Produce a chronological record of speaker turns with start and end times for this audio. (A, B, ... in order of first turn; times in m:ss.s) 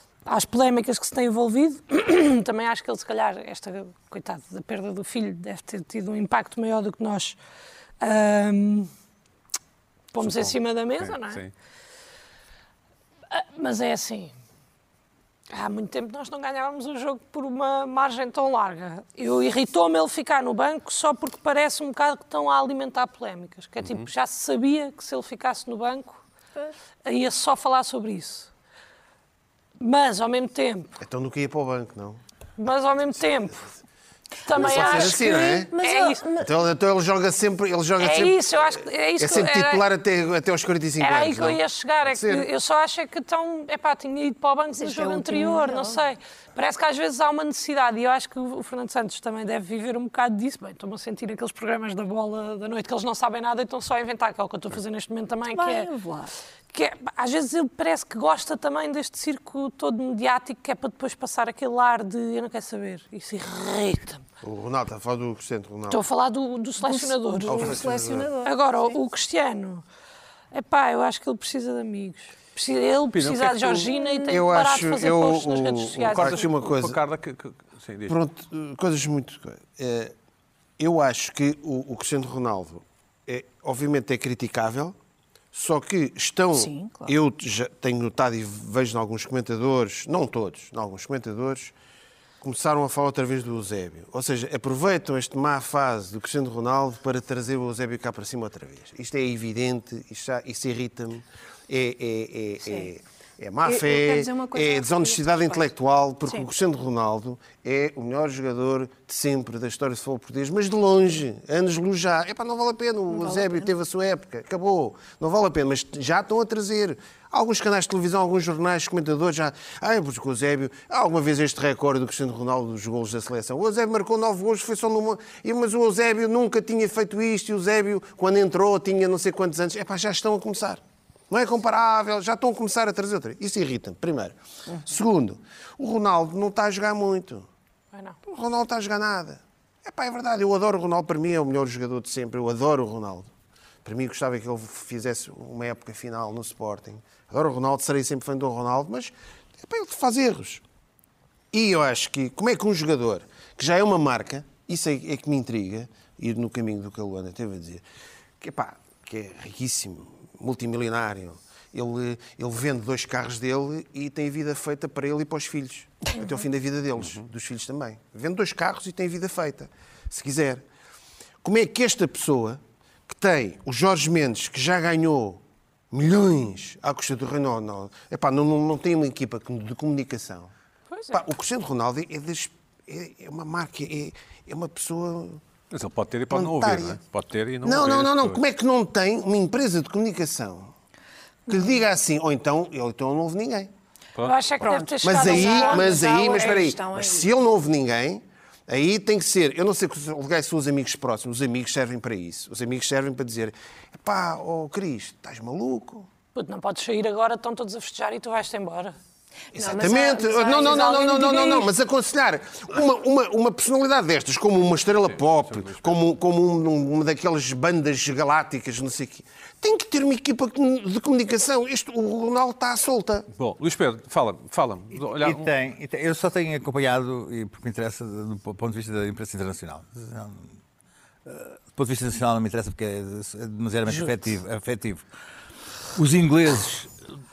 0:00.2-0:07.4 A
0:08.0-0:08.9 A
0:10.1-0:11.4 A
0:10.2-0:11.5 B
0:13.3-0:14.3 A
0:15.5-0:26.2 A
0:23.8-0:24.1 B
0:27.0-0:28.5 A
0:29.8-0:30.9 A
0:31.0-0:32.2 C
0:32.6-0:33.6 A
0:34.4-0:36.2 A
0:34.5-0:36.5 D
0:34.5-0:35.7 C
0:36.4-0:42.5 C
0:38.0-0:39.8 A
0:41.0-0:55.9 A
0:44.7-0:46.0 D
0:55.5-0:56.3 D
0:56.7-1:04.2 A
1:04.4-1:06.0 C
1:05.9-1:07.8 A
1:06.8-1:09.0 D
1:07.5-1:08.3 C
1:08.4-1:09.8 A
1:10.5-1:16.5 A
1:13.1-1:13.9 B
1:13.9-1:14.4 D
1:14.3-1:17.0 C
1:16.1-1:18.2 B
1:18.1-1:20.1 C
1:20.8-1:25.0 C
1:25.5-1:31.7 C
1:26.5-1:27.1 D
1:32.4-2:17.5 C
1:43.6-1:45.7 D
1:53.1-1:53.7 D
2:18.2-2:23.3 C
2:23.8-2:30.6 C
2:31.5-2:37.8 C
2:38.4-2:50.6 C
2:51.4-2:55.4 C
2:55.9-3:00.5 C
3:01.1-3:05.4 C
3:05.7-3:08.4 B
3:06.3-3:07.0 C
3:07.6-3:10.7 C
3:11.5-3:13.7 C
3:14.2-3:14.6 B
3:14.2-3:16.3 A
3:14.6-3:17.3 D
3:15.0-3:26.1 C
3:26.3-3:28.9 A
3:29.5-3:31.6 D
3:29.5-3:43.3 C
3:30.5-3:31.6 A
3:35.0-3:36.0 B
3:43.3-3:45.5 B
3:45.0-3:50.5 E
3:51.2-3:55.0 E
3:55.9-3:56.9 E